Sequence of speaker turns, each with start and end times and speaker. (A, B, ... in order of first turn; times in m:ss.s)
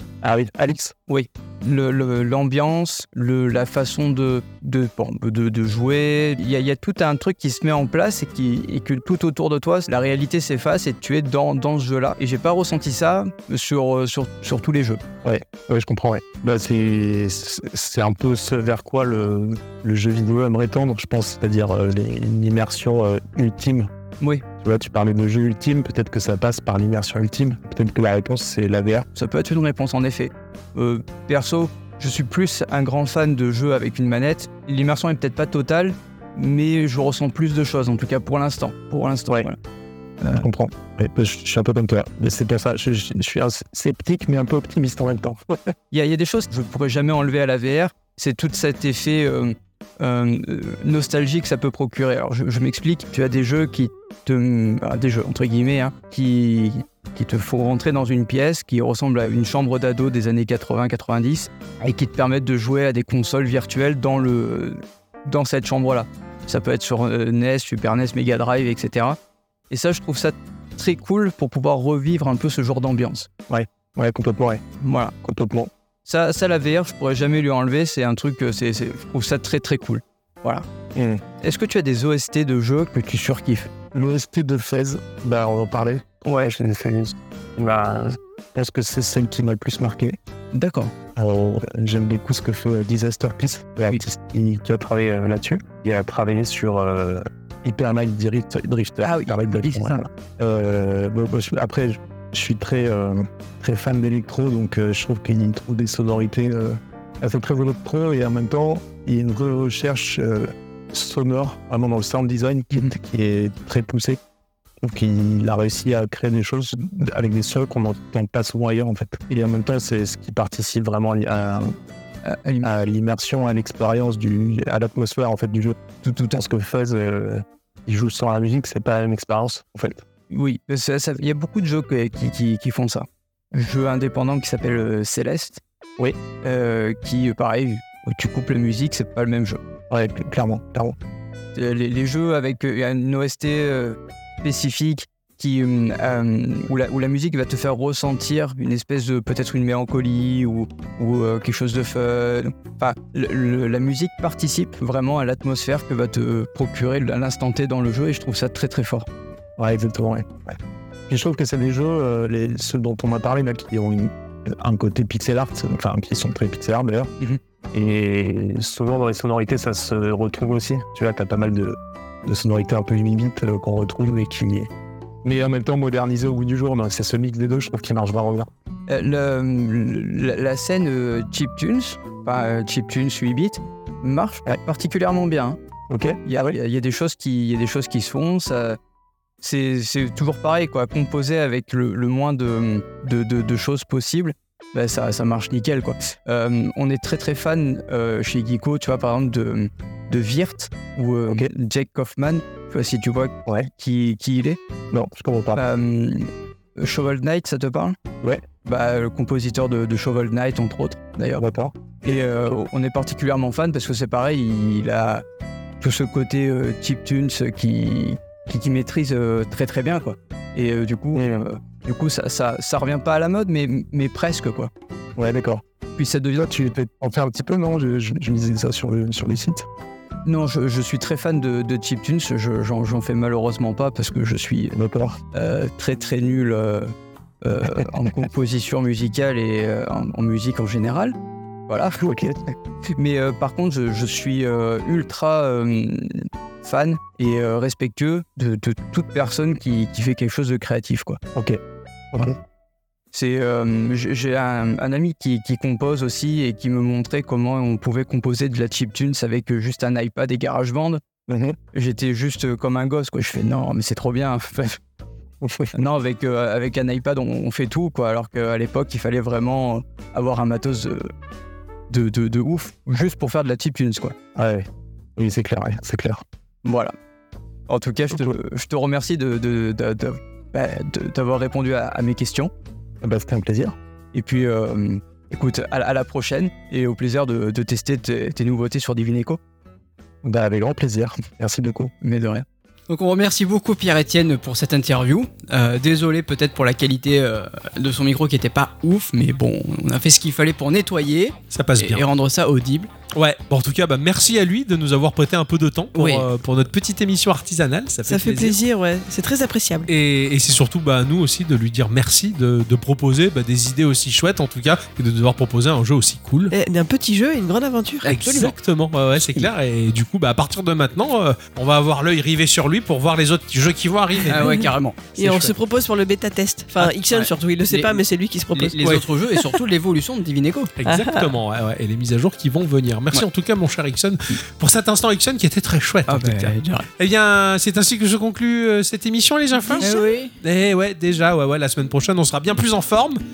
0:00.2-0:00.9 A
0:01.1-0:15.0 B
0:15.2-0:23.9 A
0:24.6-0:29.0 A
0:29.2-0:39.5 B
0:40.3-0:45.4 A
0:45.9-1:09.2 B
1:09.7-1:13.3 B
1:13.4-1:14.6 A
1:14.8-1:15.1 B
1:15.2-1:15.7 A
1:16.0-1:20.6 B
1:20.9-1:21.2 A
1:21.4-1:23.7 B
1:23.9-1:30.2 A
1:30.5-1:30.9 C
1:31.2-1:54.2 A
1:39.1-1:40.0 C
1:54.8-2:01.7 A
2:02.2-2:02.7 B
2:02.6-2:10.0 A
2:06.0-2:06.3 B
2:10.3-2:15.6 B
2:16.4-2:19.6 B
2:19.9-2:21.0 A
2:21.5-2:39.1 B
2:39.6-2:40.6 A
2:41.1-2:47.1 A
2:47.7-2:54.7 A
2:55.2-2:58.5 A
2:58.9-3:05.6 B
3:05.9-3:06.5 A
3:06.2-3:08.8 B
3:09.4-3:24.6 B
3:24.9-3:25.6 A
3:25.6-3:28.0 B
3:28.2-3:28.5 A
3:28.5-3:31.4 B
3:31.4-3:31.9 A
3:32.0-3:35.2 B
3:35.8-3:44.7 B
3:41.1-3:41.4 A
3:45.2-3:45.6 A
3:46.0-3:46.4 B
3:46.4-3:49.6 A
3:50.2-3:54.7 B
3:54.7-3:55.2 A
3:55.3-3:56.9 B
3:57.4-4:01.1 B
4:01.7-4:02.0 B
4:02.0-4:02.5 A
4:02.9-4:11.2 B
4:11.3-4:11.6 A
4:13.1-4:21.0 B
4:21.3-4:21.6 A
4:21.7-4:24.8 B
4:25.4-4:25.7 A
4:25.7-4:31.1 B
4:31.9-4:34.1 B
4:34.4-4:34.6 A
4:35.2-4:36.2 A
4:36.6-4:36.9 B
4:37.7-4:42.5 B
4:43.0-4:43.7 A
4:44.1-4:49.4 B
4:50.2-4:51.9 A
4:52.0-4:52.4 B
4:52.9-5:02.9 C
4:59.1-4:59.7 B
5:01.5-5:02.0 D
5:03.1-5:08.6 D
5:06.0-5:06.2 C
5:08.1-5:09.9 E
5:09.9-5:16.5 D
5:16.5-5:18.2 E
5:18.0-5:18.5 C
5:18.0-5:24.6 D
5:24.3-5:25.5 C
5:25.2-5:29.5 E
5:26.8-5:27.9 C
5:28.5-5:30.7 C
5:30.8-5:43.2 D
5:30.8-5:31.3 E
5:36.1-5:36.9 C
5:39.7-5:40.2 E
5:39.8-5:40.3 C